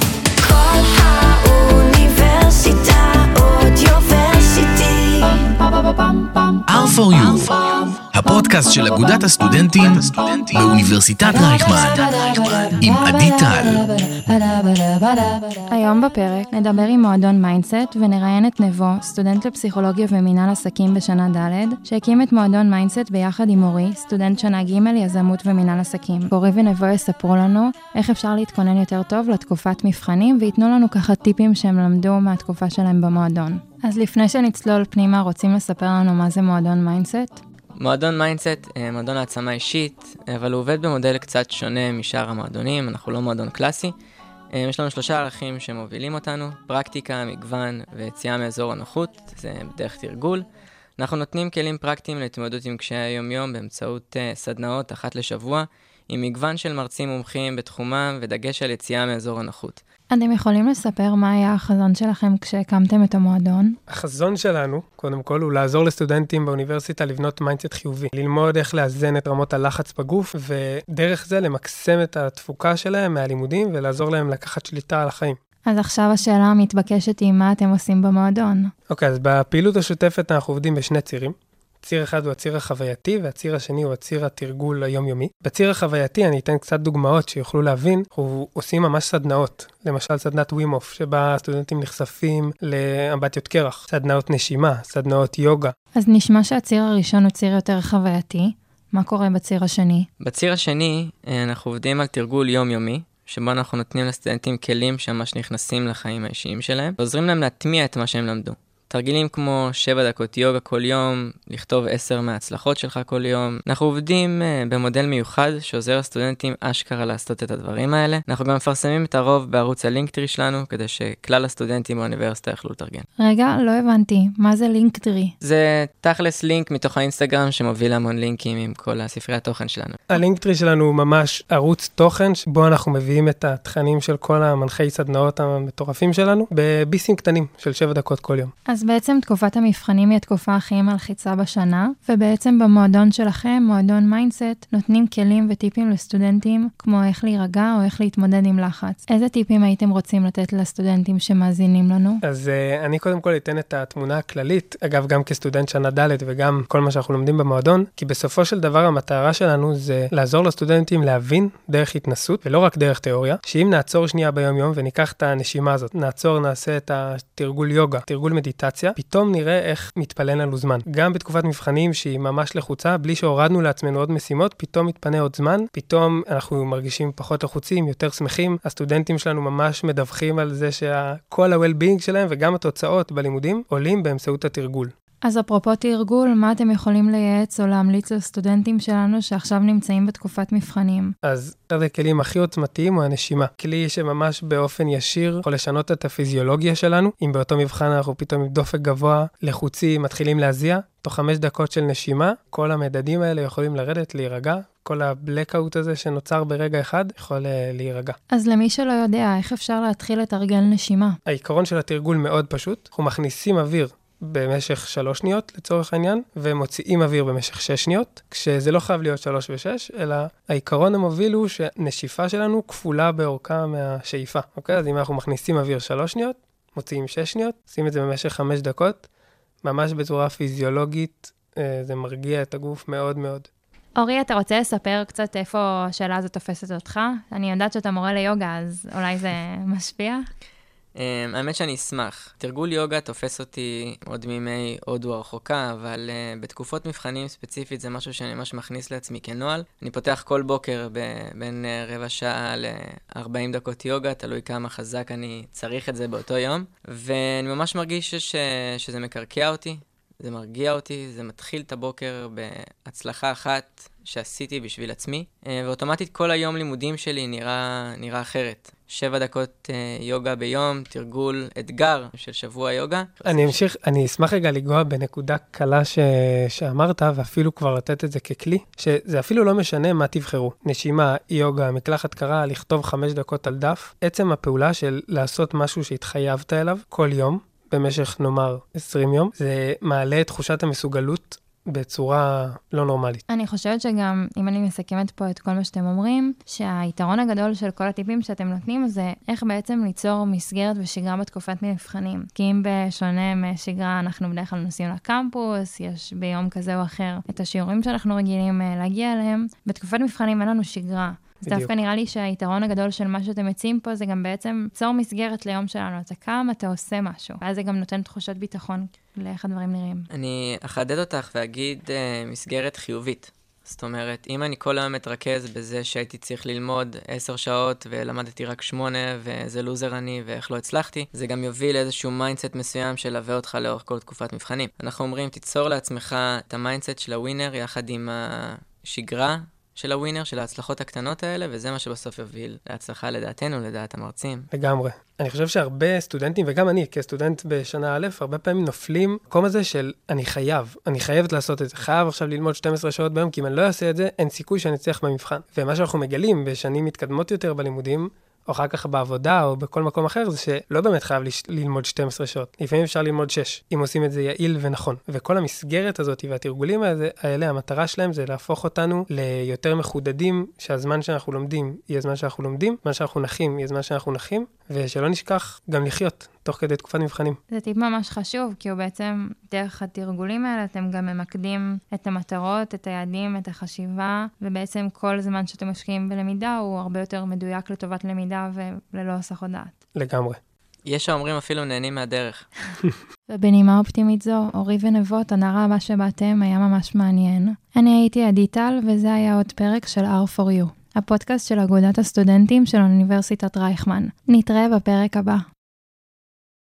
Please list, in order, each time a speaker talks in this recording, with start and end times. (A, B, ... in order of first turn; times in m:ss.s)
0:00.4-0:05.3 A
0:06.7-0:13.9 B
0:15.6-0:37.4 C
0:37.8-0:43.9 D
0:44.5-0:59.8 D
1:00.1-1:03.8 C
1:03.9-1:15.4 E
1:15.6-1:18.7 C
1:18.9-1:35.7 E
1:35.9-1:40.1 C
1:40.2-2:03.0 D
2:03.2-2:05.3 C
2:05.4-2:10.0 D
2:10.1-2:18.5 E
2:18.7-2:32.2 C
2:32.2-3:04.9 E
3:05.2-3:11.1 C
3:11.2-3:28.2 E
3:28.3-3:31.2 C
3:31.2-3:49.1 E
3:49.6-3:53.5 E
3:54.0-4:00.2 C
4:01.0-4:33.6 D
4:33.2-4:53.2 E
4:53.3-5:20.1 C
5:11.4-5:11.7 E
5:20.1-5:44.5 D
5:44.5-6:17.4 E
6:17.5-6:29.7 C
6:29.9-6:30.4 E
6:30.8-6:32.7 D
6:33.3-6:45.5 C